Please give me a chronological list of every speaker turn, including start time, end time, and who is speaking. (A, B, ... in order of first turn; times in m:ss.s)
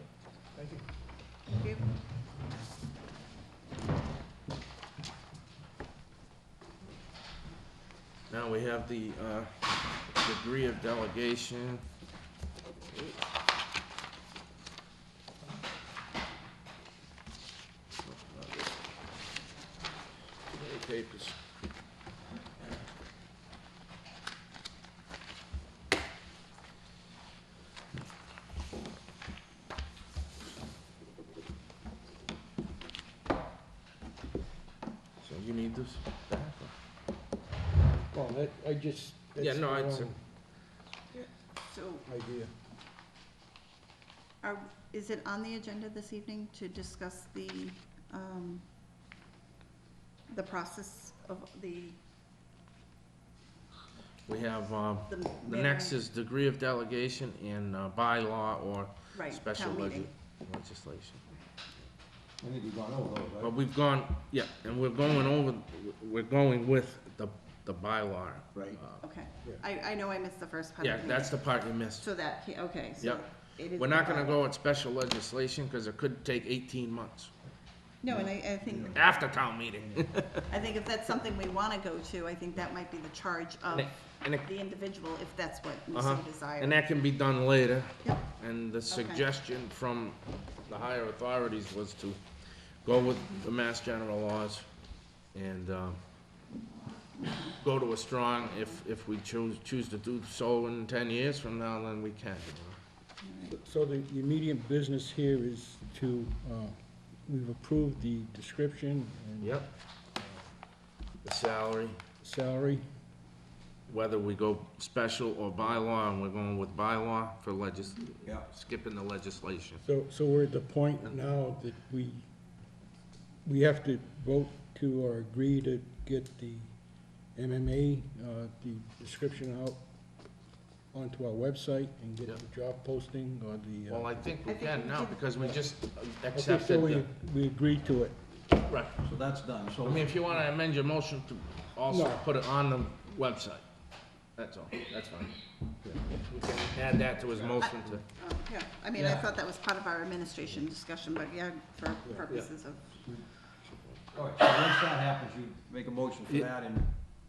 0:00.6-0:00.8 A
0:01.5-0:01.8 B
0:08.3-0:09.5 C
0:10.1-0:11.8 C
0:18.0-0:18.7 C
0:20.5-0:21.4 C
0:35.2-0:36.7 C
0:38.1-0:40.2 A
0:39.4-0:40.1 C
0:41.1-0:42.1 B
0:42.1-0:42.5 A
0:44.4-0:48.6 B
0:50.3-0:52.0 B
0:54.3-1:01.2 C
0:55.1-0:55.9 B
0:59.2-1:00.1 B
1:02.4-1:03.6 D
1:03.4-1:09.0 C
1:09.0-1:11.4 B
1:10.8-1:12.1 C
1:12.0-1:14.4 B
1:13.8-1:17.3 C
1:18.0-1:19.1 B
1:18.1-1:19.0 D
1:18.9-1:20.5 C
1:20.5-1:26.8 B
1:23.7-1:24.5 C
1:25.9-1:32.2 C
1:28.9-1:29.2 B
1:32.8-1:34.7 C
1:35.3-1:36.0 C
1:37.5-1:42.8 C
1:43.2-1:43.6 B
1:43.5-1:49.6 A
1:49.4-1:49.7 C
1:51.2-1:52.0 C
1:52.2-1:52.8 A
1:53.9-1:59.8 C
1:59.8-2:02.3 A
2:03.4-2:06.7 A
2:07.4-2:09.8 A
2:10.9-2:14.1 A
2:13.9-2:17.1 C
2:14.5-2:15.2 B
2:16.3-2:18.2 A
2:18.7-2:18.9 C
2:19.0-2:20.4 D
2:19.8-2:23.6 C
2:21.9-2:22.2 A
2:24.4-2:25.3 C
2:26.2-2:28.0 C
2:27.6-2:32.8 B
2:29.0-2:29.3 D
2:34.1-2:36.9 D